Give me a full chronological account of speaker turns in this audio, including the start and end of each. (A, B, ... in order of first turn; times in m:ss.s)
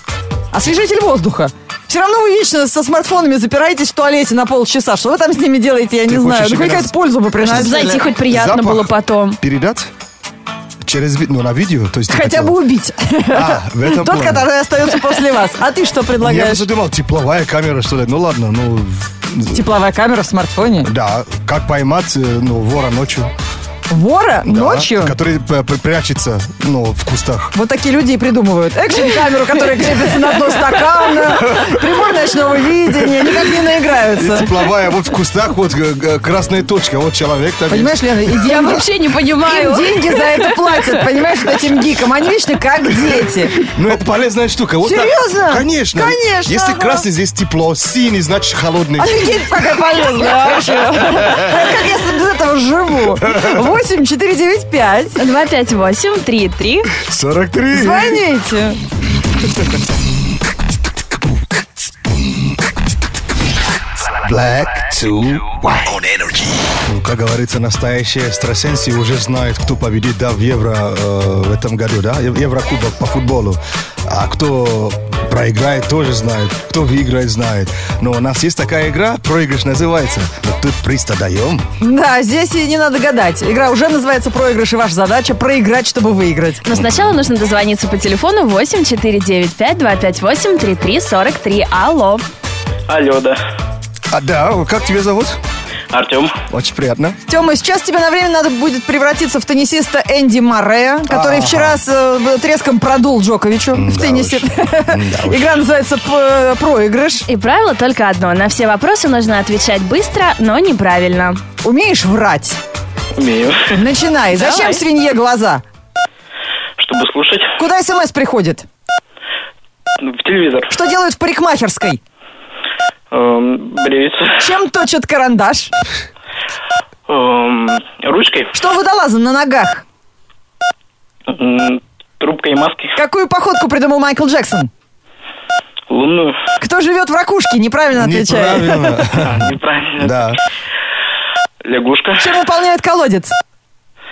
0:00.5-0:08.1 A
0:06.1-0:09.9 B
0:07.4-0:09.4 C
0:10.8-0:12.6 B
0:12.1-0:16.7 A
0:13.3-0:14.5 B
0:16.2-0:19.6 B
0:19.5-0:20.9 A
0:20.8-0:23.3 B
0:23.9-0:25.2 A
0:24.4-0:27.5 B
0:27.5-0:34.5 A
0:31.4-0:31.8 B
0:34.1-0:38.2 B
0:37.7-0:38.9 A
0:38.3-0:41.0 C
0:39.4-0:43.7 A
0:43.7-0:49.2 B
0:44.8-0:47.0 A
0:49.0-0:55.2 A
0:55.2-0:56.9 C
0:56.9-0:58.2 B
0:57.7-0:58.8 A
1:04.1-1:21.6 B
1:21.8-1:26.6 A
1:26.6-1:32.2 C
1:26.7-1:27.1 B
1:32.9-1:33.4 D
1:34.1-1:35.4 B
1:35.9-1:36.3 D
1:36.5-1:37.2 B
1:37.3-1:47.3 A
1:41.1-1:41.8 B
1:43.7-1:45.6 B
1:47.3-1:51.4 C
1:51.6-1:52.6 A
1:53.2-1:53.7 D
1:53.7-1:55.6 A
1:54.3-1:54.8 C
1:56.8-1:57.6 D
1:57.6-1:58.7 A
2:00.0-2:00.7 D
2:00.7-2:02.0 A
2:03.1-2:04.4 D
2:04.4-2:05.7 A
2:07.1-2:08.5 D
2:08.5-2:09.8 A
2:11.3-2:13.0 D
2:13.0-2:14.7 A
2:15.9-2:16.4 D
2:16.6-2:19.1 A
2:18.0-2:20.4 B
2:19.2-2:20.3 D
2:21.6-2:22.3 D
2:22.2-2:23.4 A